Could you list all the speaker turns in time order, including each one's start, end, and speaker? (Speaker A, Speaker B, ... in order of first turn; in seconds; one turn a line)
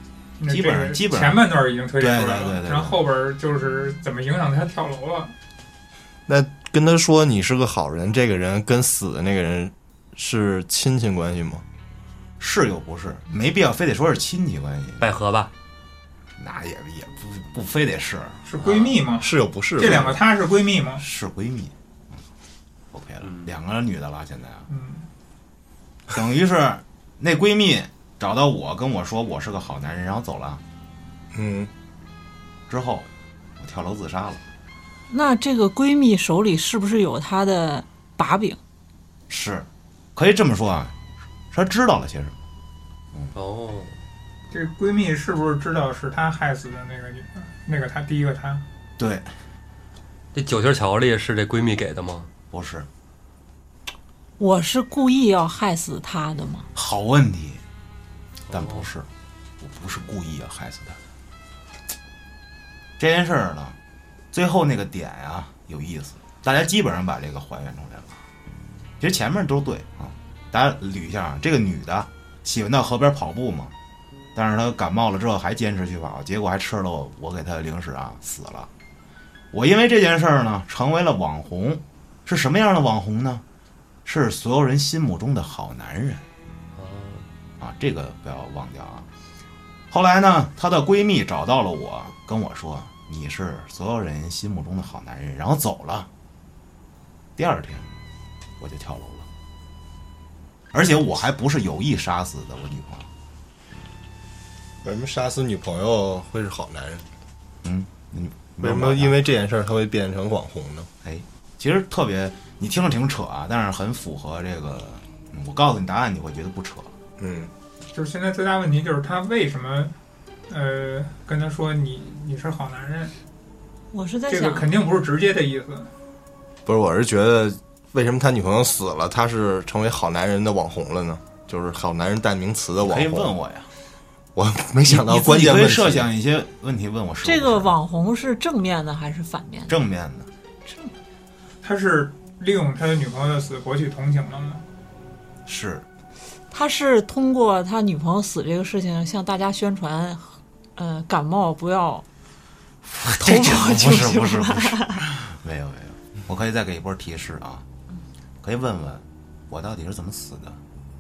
Speaker A: 0.4-5.3
Speaker B: 0.5-3.0
Speaker C: 6.3-11.7
Speaker B: 12.4-15.1
Speaker D: 15.0-15.5
Speaker B: 16.4-18.4
Speaker A: 18.4-21.0
Speaker C: 19.2-20.2
Speaker B: 21.0-21.7
Speaker B: 22.9-24.7
Speaker A: 24.7-25.1
Speaker B: 26.1-30.6
Speaker C: 31.3-31.7
Speaker B: 32.7-33.1
Speaker B: 33.6-34.4
Speaker E: 35.1-38.6
Speaker B: 39.3-41.0
Speaker B: 41.5-42.4
Speaker D: 43.3-44.0
Speaker A: 44.5-48.6
Speaker B: 49.0-49.3
Speaker D: 50.3-52.3
Speaker B: 52.5-52.9
Speaker E: 54.4-56.7
Speaker B: 56.8-57.6
Speaker D: 58.5-58.8
Speaker B: 58.5-59.1
Speaker B: 59.6-61.0
Speaker B: 63.0-63.8
Speaker B: 64.3-68.2
Speaker B: 69.0-73.7
Speaker B: 74.3-78.7
Speaker B: 79.5-83.4
Speaker B: 84.1-86.2
Speaker D: 86.8-87.3
Speaker B: 87.6-89.1
Speaker B: 89.9-96.1
Speaker B: 97.4-97.9
Speaker B: 98.6-99.3
Speaker B: 100.7-103.1
Speaker C: 104.8-107.0
Speaker B: 107.6-109.2
Speaker C: 108.6-110.9
Speaker B: 111.0-116.9
Speaker C: 117.2-117.5
Speaker A: 117.9-120.0
Speaker A: 120.5-123.1
Speaker E: 123.9-124.8
Speaker A: 124.3-125.9
Speaker C: 126.7-133.3
Speaker B: 132.8-133.7
Speaker C: 134.3-136.1
Speaker B: 134.8-137.7
Speaker E: 137.2-139.8
Speaker B: 139.7-140.3
Speaker E: 140.7-140.9
Speaker A: 141.6-144.6
Speaker B: 145.5-145.8
Speaker E: 146.5-152.1
Speaker B: 152.9-157.6
Speaker E: 153.2-155.1
Speaker B: 158.4-160.6